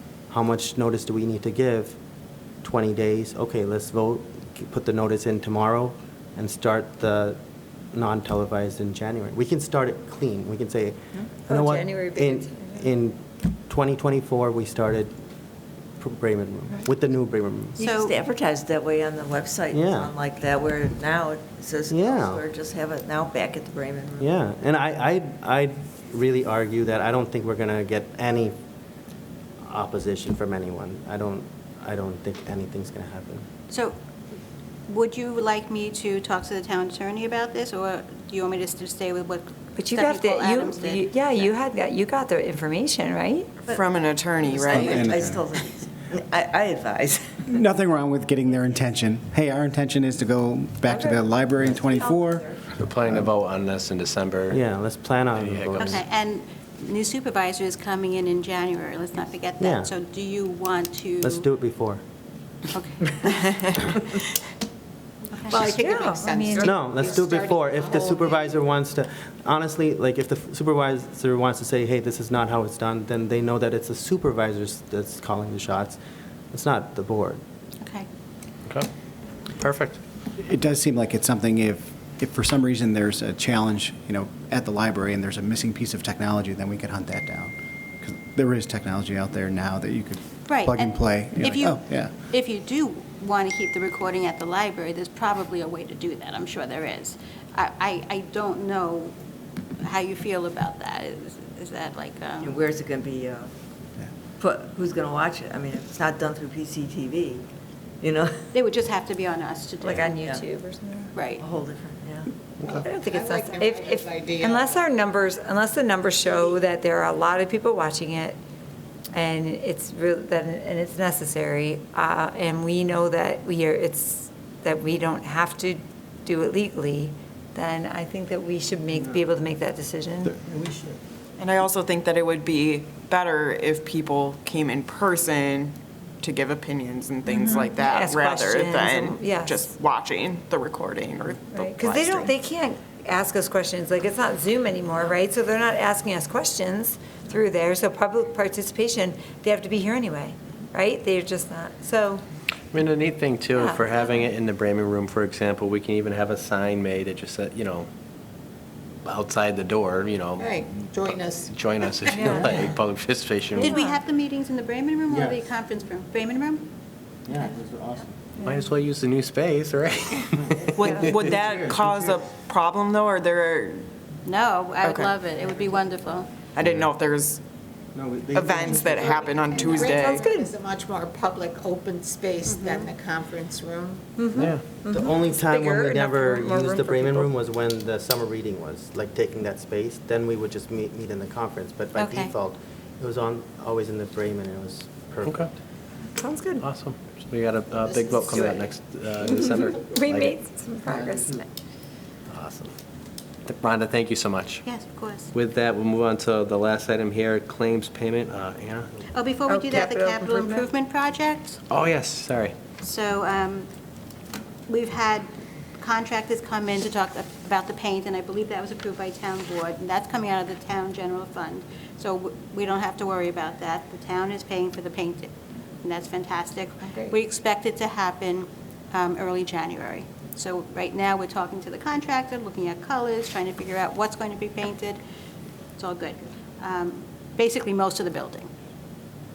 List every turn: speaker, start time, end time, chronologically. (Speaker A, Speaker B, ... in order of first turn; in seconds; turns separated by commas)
Speaker A: 0.3-2.0, Speaker A: 2.6-7.4, Speaker A: 7.9-15.1, Speaker B: 11.4-12.9, Speaker A: 16.0-17.8, Speaker C: 17.8-18.1, Speaker D: 17.8-24.3, Speaker A: 19.7-20.1, Speaker A: 21.9-22.4, Speaker A: 24.2-28.6, Speaker A: 29.6-33.4, Speaker C: 33.7-34.0, Speaker C: 34.9-41.5, Speaker B: 39.8-43.6, Speaker E: 43.7-45.0, Speaker D: 44.5-47.6, Speaker F: 44.5-45.4, Speaker F: 47.5-52.5, Speaker B: 50.8-51.3, Speaker D: 51.6-52.7, Speaker G: 52.8-54.6, Speaker A: 54.5-56.0, Speaker G: 55.3-56.0, Speaker C: 55.8-61.5, Speaker A: 59.6-59.9, Speaker A: 61.2-62.0, Speaker C: 62.7-64.2, Speaker C: 65.3-65.7, Speaker H: 65.5-68.5, Speaker B: 65.7-66.8, Speaker A: 66.6-76.0, Speaker A: 76.5-77.4, Speaker G: 79.6-80.0, Speaker F: 80.4-92.1, Speaker C: 90.5-99.1, Speaker C: 99.8-102.6, Speaker D: 102.4-103.5, Speaker D: 104.4-107.5, Speaker D: 108.0-108.4, Speaker C: 108.5-110.4, Speaker B: 109.8-111.1, Speaker D: 110.1-110.4, Speaker C: 111.1-111.4, Speaker D: 111.4-112.3, Speaker G: 112.6-112.8, Speaker B: 112.7-118.4, Speaker H: 113.0-114.9, Speaker H: 116.3-116.5, Speaker B: 119.1-130.4, Speaker E: 131.4-142.3, Speaker B: 137.3-139.7, Speaker B: 141.5-152.2, Speaker G: 152.7-157.9, Speaker B: 153.5-154.3, Speaker G: 159.0-163.7, Speaker H: 160.4-162.5, Speaker B: 162.0-162.7, Speaker C: 163.6-166.6, Speaker B: 163.7-164.0, Speaker B: 168.4-168.7, Speaker G: 168.4-171.3, Speaker E: 170.7-173.9, Speaker C: 174.2-176.3, Speaker E: 174.8-175.1, Speaker E: 176.5-177.4, Speaker A: 178.0-179.2, Speaker E: 178.3-180.2, Speaker H: 179.6-184.1, Speaker B: 179.9-180.5, Speaker C: 182.4-182.9, Speaker B: 184.2-187.3, Speaker G: 184.3-184.6, Speaker A: 184.3-195.5, Speaker C: 191.9-192.3, Speaker G: 195.2-195.5, Speaker B: 196.2-196.7, Speaker G: 196.6-200.3, Speaker B: 199.2-201.4, Speaker G: 202.3-202.7, Speaker G: 203.4-204.6, Speaker C: 204.6-205.3, Speaker G: 205.3-208.9, Speaker C: 209.1-211.6, Speaker B: 209.5-210.7, Speaker G: 211.7-212.5, Speaker C: 212.8-213.7, Speaker C: 214.7-215.3, Speaker C: 215.8-225.3, Speaker C: 225.8-235.0, Speaker C: 235.8-238.5